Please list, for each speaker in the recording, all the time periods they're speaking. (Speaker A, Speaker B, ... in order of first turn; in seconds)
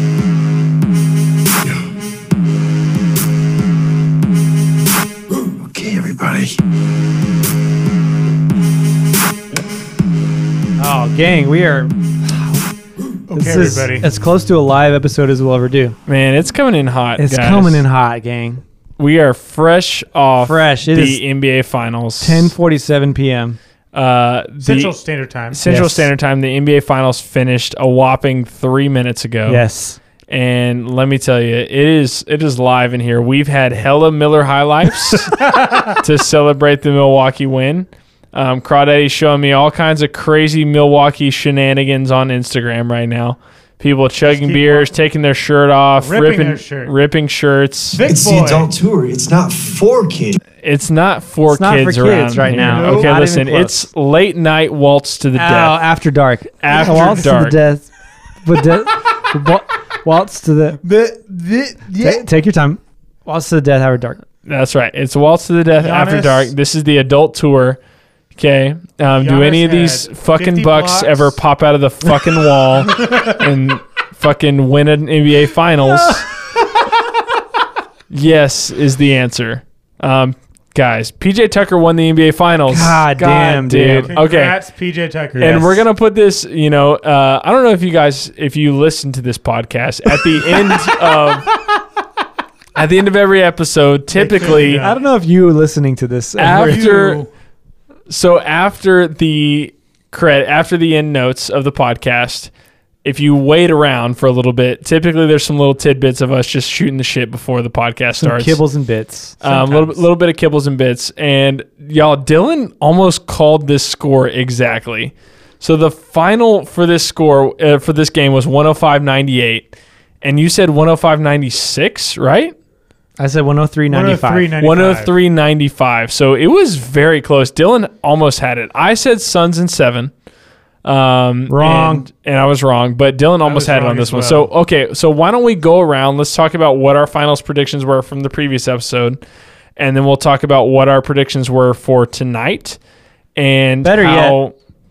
Speaker A: 5.5-6.6, 48.1-50.4
Speaker B: 10.8-12.7, 13.3-16.0, 17.2-18.6, 20.4-21.2, 22.2-23.6, 25.6-26.1, 29.5-30.0, 51.5-53.9, 55.3-57.9, 58.4-60.8, 62.0-64.2, 82.7-84.1, 94.8-96.9, 108.2-109.8, 123.2-124.6, 131.5-132.1, 143.8-144.4
Speaker C: 13.3-14.1, 24.6-25.6, 35.4-36.0, 44.2-45.0, 46.0-47.0, 47.9-48.7, 52.4-53.1, 56.7-57.2, 60.8-62.3, 65.8-66.5, 69.1-71.4, 72.9-73.3, 84.1-85.8, 90.6-91.3, 94.1-95.0, 96.5-97.3, 109.5-110.0, 123.9-125.1, 133.4-134.5
Speaker D: 16.1-17.8, 19.0-22.6, 23.9-24.9, 25.5-29.6, 30.3-35.4, 36.0-48.0, 50.6-55.8, 56.6-57.6, 64.5-67.8, 68.4-76.3, 78.1-84.6, 85.4-91.5, 92.8-94.8, 96.4-97.2, 98.1-102.5, 103.0-108.6, 109.4-122.5, 124.6-130.1, 130.8-139.2, 139.8-142.8, 143.4-144.5